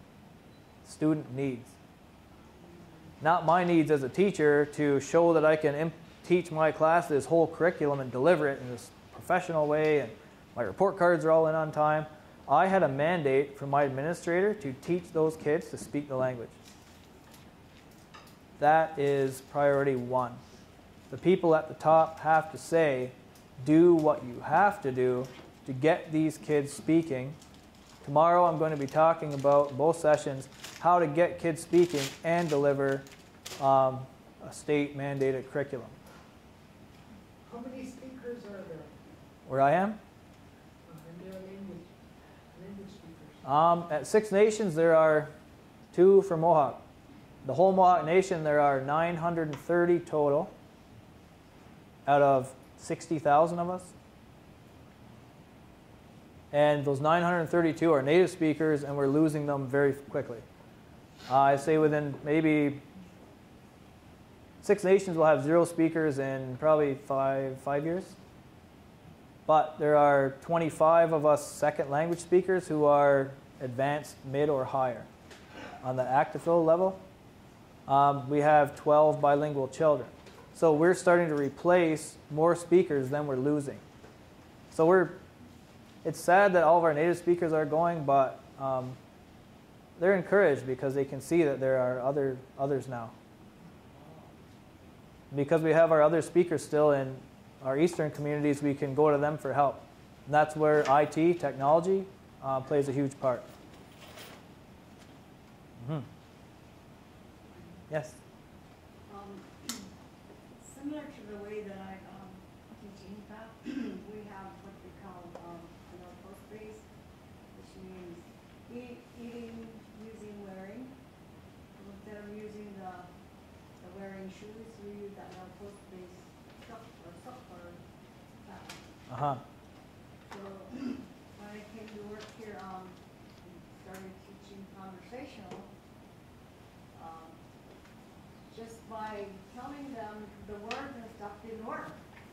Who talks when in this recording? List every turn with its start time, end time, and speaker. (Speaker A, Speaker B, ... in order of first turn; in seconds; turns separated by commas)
Speaker A: 0.8-1.7, Speaker A: 3.2-16.6, Speaker A: 18.6-20.4, Speaker A: 21.1-27.4, Speaker A: 28.0-33.1, Speaker A: 33.6-35.9, Speaker B: 37.4-38.9, Speaker A: 39.5-40.0, Speaker B: 40.9-41.9, Speaker B: 42.5-43.4, Speaker A: 43.4-45.3, Speaker A: 45.9-46.8, Speaker A: 47.4-50.5, Speaker A: 52.0-53.9, Speaker A: 56.5-60.4, Speaker A: 61.3-62.8, Speaker A: 64.6-68.2, Speaker A: 69.5-75.1, Speaker A: 75.8-77.0, Speaker A: 77.9-83.8, Speaker A: 84.7-85.2, Speaker A: 86.0-89.0, Speaker A: 90.0-93.1, Speaker A: 95.3-103.5, Speaker A: 105.8-106.1, Speaker A: 107.9-108.2, Speaker C: 109.1-109.9, Speaker C: 110.6-116.8, Speaker C: 117.5-120.9, Speaker C: 121.8-123.1, Speaker C: 123.8-127.8, Speaker C: 128.4-128.8, Speaker A: 129.1-129.4, Speaker C: 130.3-135.7, Speaker C: 136.9-137.4, Speaker C: 138.5-142.0